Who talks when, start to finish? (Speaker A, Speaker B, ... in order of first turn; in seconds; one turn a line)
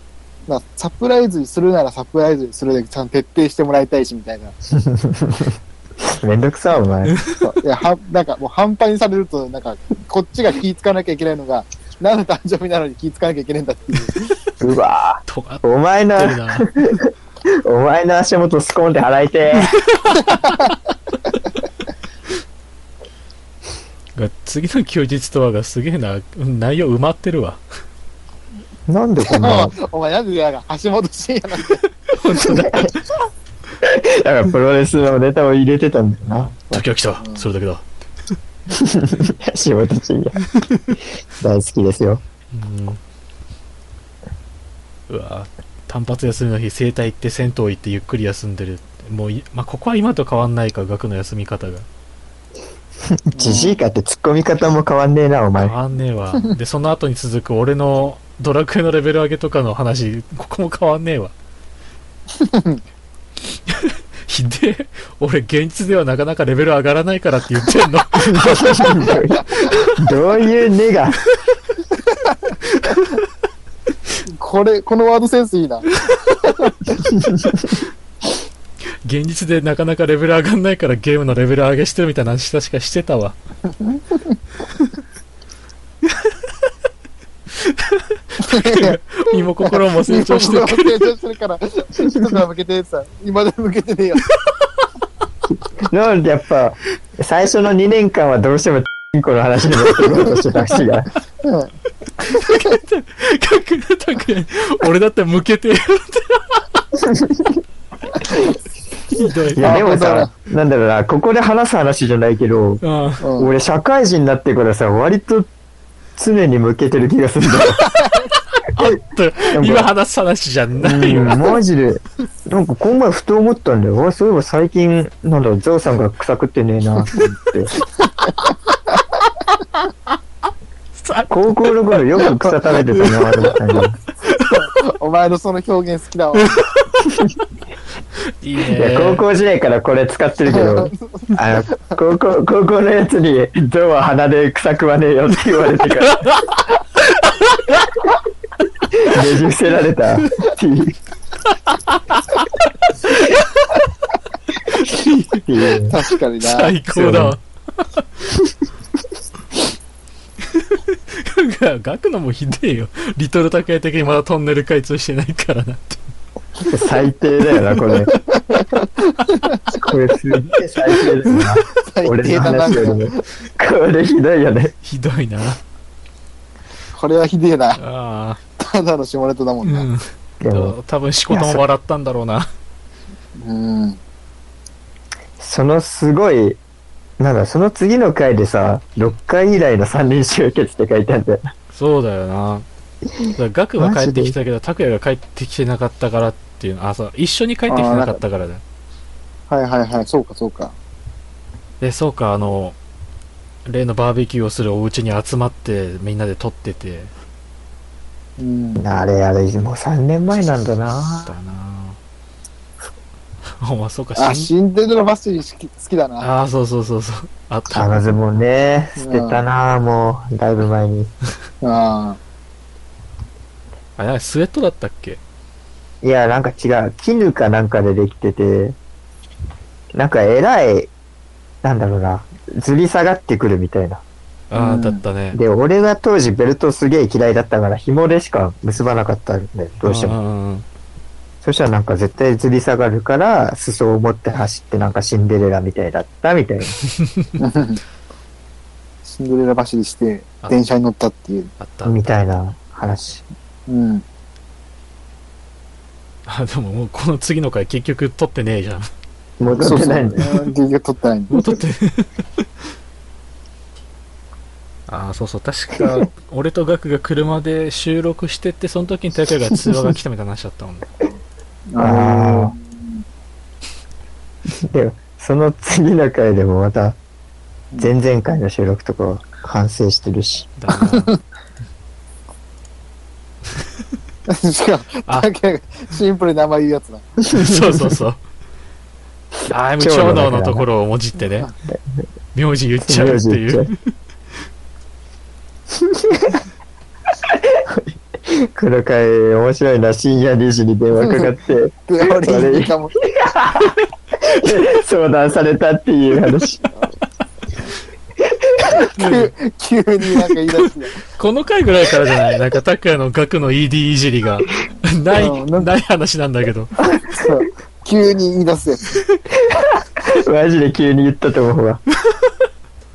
Speaker A: 0.5-4.5
Speaker B: 4.7-7.1
Speaker C: 7.1-7.4
Speaker A: 7.4-14.3
Speaker B: 14.6-19.7
Speaker C: 15.3-15.6
Speaker C: 16.1-16.7
Speaker C: 19.6-20.7
Speaker C: 24.1-27.6
Speaker B: 28.9-29.7
Speaker A: 29.2-31.8
Speaker C: 32.1-33.0
Speaker B: 32.5-33.0
Speaker B: 33.8-36.5
Speaker C: 36.4-37.8
Speaker B: 38.7-40.4
Speaker B: 41.4-42.2
Speaker C: 42.5-43.0
Speaker C: 45.1-51.9
Speaker B: 53.0-55.7
Speaker A: 53.4-53.8
Speaker C: 55.6-61.3
Speaker A: 62.4-62.8
Speaker C: 63.7-69.1
Speaker B: 68.4-71.2
Speaker C: 72.7-73.2
Speaker A: 74.3-75.9
Speaker A: 76.4-76.9
Speaker B: 77.3-77.6
Speaker C: 79.0-83.3
Speaker A: 83.8-84.3
Speaker C: 86.1-86.3
Speaker C: 87.5-91.0
Speaker A: 88.4-89.0
Speaker A: 89.6-94.3
Speaker B: 95.8-101.1
Speaker A: 101.4-101.7
Speaker C: 102.3-106.8
Speaker B: 107.0-107.6
Speaker B: 108.3-108.5
Speaker C: 109.1-109.8
Speaker B: 109.5-112.8
Speaker A: 109.6-110.3
Speaker C: 112.8-113.2
Speaker A: 113.2-113.5
Speaker B: 113.4-115.5
Speaker B: 116.2-117.8
Speaker C: 118.5-121.4
Speaker B: 119.5-119.9
Speaker B: 120.8-127.7
Speaker C: 131.0-131.3
Speaker B: 131.3-133.9
Speaker A: 134.3-136.6
Speaker C: 138.4-139.2
Speaker B: 138.8-146.4
Speaker A: 140.5-142.0
Speaker C: 146.0-147.9
Speaker B: 148.9-151.0
Speaker C: 151.4-153.8
Speaker C: 154.6-155.5
Speaker B: 155.4-155.9
Speaker A: 155.9-156.8
Speaker C: 156.4-158.2
Speaker B: 156.9-157.3
Speaker C: 160.5-166.1
Speaker B: 166.7-168.1
Speaker A: 167.9-169.8
Speaker B: 169.7-174.7
Speaker A: 171.8-173.2
Speaker C: 174.8-175.6
Speaker A: 176.9-177.8
Speaker C: 177.8-178.4
Speaker A: 178.6-179.9
Speaker C: 179.6-182.5
Speaker B: 180.4-180.7
Speaker B: 181.3-181.6
Speaker A: 183.4-184.0
Speaker B: 185.4-186.6
Speaker B: 187.2-191.4
Speaker C: 191.7-192.7
Speaker C: 193.3-198.6
Speaker B: 193.8-194.3
Speaker A: 197.7-198.2
Speaker A: 199.5-200.7
Speaker C: 201.8-202.8
Speaker C: 203.7-207.1
Speaker A: 208.4-208.8
Speaker B: 208.8-211.3
Speaker C: 211.2-212.0
Speaker C: 213.6-214.5
Speaker A: 214.2-216.3
Speaker C: 216.2-218.1
Speaker B: 217.7-221.1
Speaker A: 219.0-219.4
Speaker A: 221.6-222.2
Speaker C: 224.0-225.2
Speaker B: 226.0-228.8
Speaker B: 229.9-230.9
Speaker B: 231.6-234.0
Speaker C: 234.5-235.4
Speaker A: 234.5-235.0
Speaker B: 235.3-240.2
Speaker C: 239.8-240.6
Speaker B: 241.4-246.8
Speaker C: 247.0-247.3
Speaker A: 247.4-247.8
Speaker A: 249.0-251.5
Speaker C: 251.6-251.9
Speaker B: 251.8-253.2
Speaker A: 253.7-254.0
Speaker C: 256.2-258.9
Speaker B: 259.4-260.4
Speaker A: 259.6-261.4
Speaker C: 261.3-262.1
Speaker C: 264.9-270.9
Speaker A: 271.7-272.6
Speaker B: 271.8-272.5
Speaker B: 274.6-277.0
Speaker B: 277.8-280.5
Speaker C: 280.6-281.1
Speaker A: 284.3-287.1
Speaker C: 287.3-288.2
Speaker C: 289.5-291.5
Speaker B: 289.8-290.6
Speaker C: 292.3-293.9
Speaker B: 292.8-293.7
Speaker B: 295.8-296.4
Speaker B: 297.2-306.6
Speaker A: 301.0-301.3
Speaker A: 301.9-302.9
Speaker B: 308.2-308.8
Speaker A: 308.8-311.0
Speaker C: 308.9-309.3
Speaker C: 311.1-316.7
Speaker A: 315.1-315.7
Speaker B: 316.8-317.1
Speaker A: 317.1-319.0
Speaker B: 319.3-321.8